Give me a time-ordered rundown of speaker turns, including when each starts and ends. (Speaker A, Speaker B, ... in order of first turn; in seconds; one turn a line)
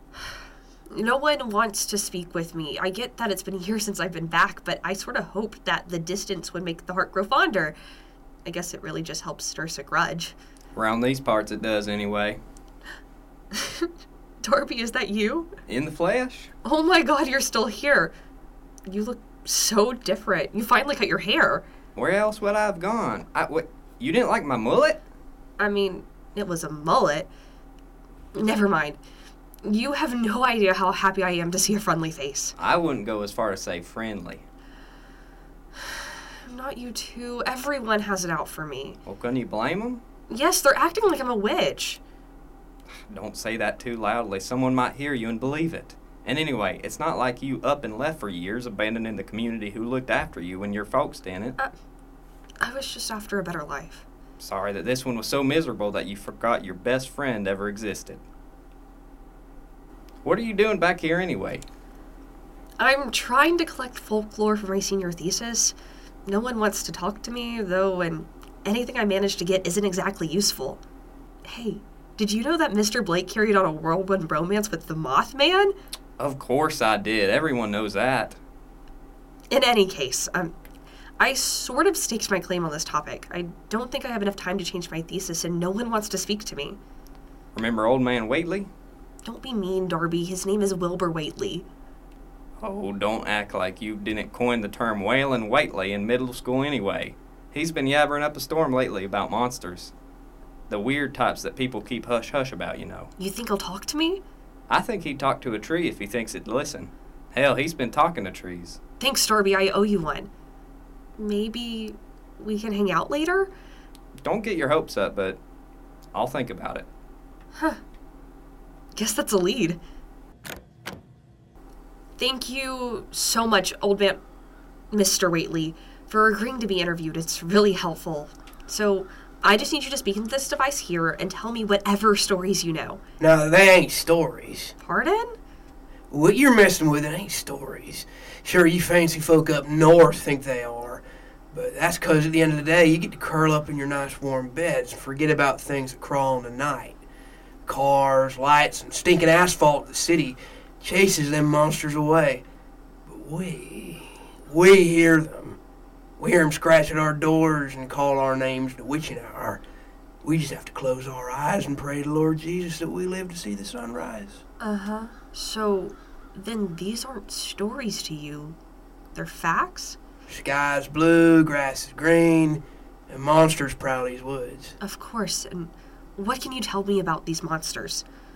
Speaker A: 0.9-7.8
Speaker A: 8.4-10.3
Speaker B: 10.7-12.4
Speaker A: 13.5-13.9
Speaker A: 14.4-15.5
Speaker B: 15.7-16.5
Speaker A: 16.6-18.1
Speaker A: 18.9-21.6
Speaker B: 21.9-25.0
Speaker A: 25.6-27.3
Speaker A: 28.3-29.0
Speaker A: 29.6-32.5
Speaker B: 32.6-34.4
Speaker A: 35.9-39.0
Speaker B: 39.0-40.0
Speaker A: 40.3-42.0
Speaker B: 43.1-51.5
Speaker A: 52.6-54.0
Speaker B: 54.4-58.2
Speaker B: 60.2-61.6
Speaker A: 62.8-70.8
Speaker A: 71.4-75.7
Speaker B: 76.2-78.4
Speaker A: 79.5-80.5
Speaker A: 81.2-86.8
Speaker B: 87.5-88.7
Speaker A: 89.2-91.7
Speaker B: 92.6-99.9
Speaker B: 100.7-103.1
Speaker A: 103.2-104.2
Speaker B: 104.7-108.8
Speaker A: 109.0-110.3
Speaker A: 111.2-113.5
Speaker B: 114.2-115.4
Speaker B: 116.1-116.9
Speaker A: 118.9-119.8
Speaker A: 122.2-124.2
Speaker A: 124.9-133.0
Speaker C: 133.2-134.7
Speaker A: 134.8-135.4
Speaker C: 136.1-147.0
Speaker C: 147.7-152.4
Speaker C: 153.1-155.6
Speaker C: 156.2-159.6
Speaker C: 160.2-164.4
Speaker A: 164.6-168.6
Speaker A: 169.1-170.0
Speaker C: 170.3-174.8
Speaker A: 174.8-178.0